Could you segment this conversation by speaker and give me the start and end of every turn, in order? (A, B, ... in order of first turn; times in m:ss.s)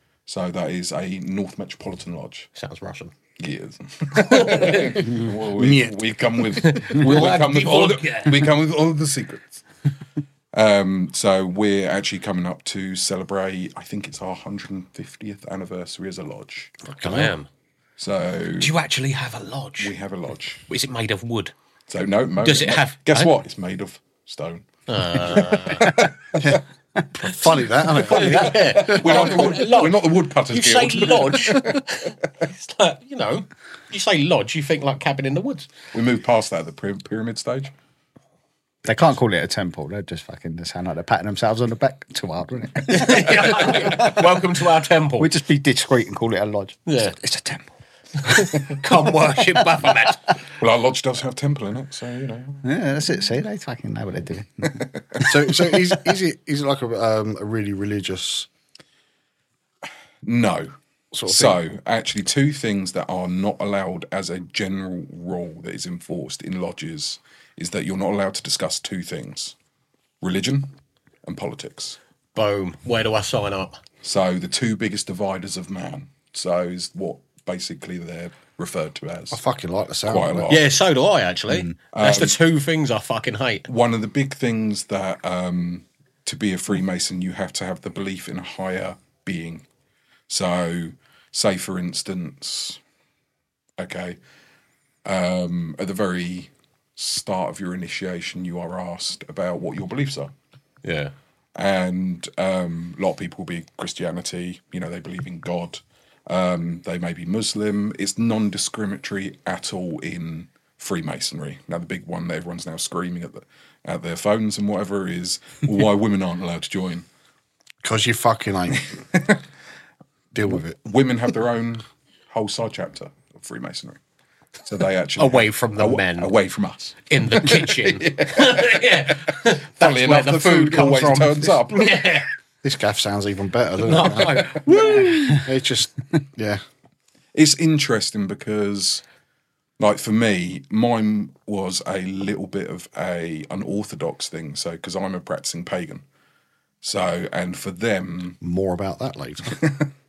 0:00.3-0:02.5 A
0:02.6-0:03.1 B
0:03.4-0:09.6 A
0:04.2-0:05.1 B
0:04.6-0:06.0 C
0:06.6-0:08.5 B
0:10.5-0:16.7 A
0:16.9-0:17.5 B
0:16.9-0:17.4 C
0:18.0-0:18.7 A
0:18.6-0:19.9 B
0:19.8-0:20.7 A
0:20.7-0:21.5 B
0:21.9-0:26.6 A
0:22.4-0:23.4 B
0:24.9-0:26.0 B
0:26.4-0:29.6 C
0:27.9-0:35.7 B
0:28.2-0:31.8 A
0:35.9-0:37.7 A
0:38.8-0:44.2 D
0:42.9-0:45.3 B
0:45.2-0:47.7 D
0:46.9-0:47.2 B
0:48.2-0:50.4 B
0:50.6-0:52.6 A
0:52.6-0:55.3 D
0:54.6-0:55.7 A
0:55.2-0:58.5 C
1:00.2-1:09.6 A
1:01.1-1:01.6 C
1:10.2-1:12.0 A
1:12.4-1:13.8 B
1:14.0-1:19.4 A
1:19.3-1:20.6 C
1:20.1-1:20.7 A
1:20.5-1:23.7 B
1:21.9-1:22.4 A
1:23.7-1:29.6 A
1:30.3-1:32.8 A
1:33.8-1:34.2 A
1:35.0-1:40.3 A
1:40.8-1:41.1 B
1:41.6-1:57.1 A
1:57.8-1:59.0 C
2:00.3-2:00.8 C
2:00.4-2:04.0 A
2:04.6-2:12.0 A
2:05.2-2:06.3 B
2:07.1-2:12.3 B
2:12.6-2:16.6 C
2:13.8-2:15.4 B
2:17.3-2:19.0 A
2:19.8-2:26.0 A
2:26.8-2:28.4 A
2:28.4-2:29.6 C
2:29.5-2:29.9 A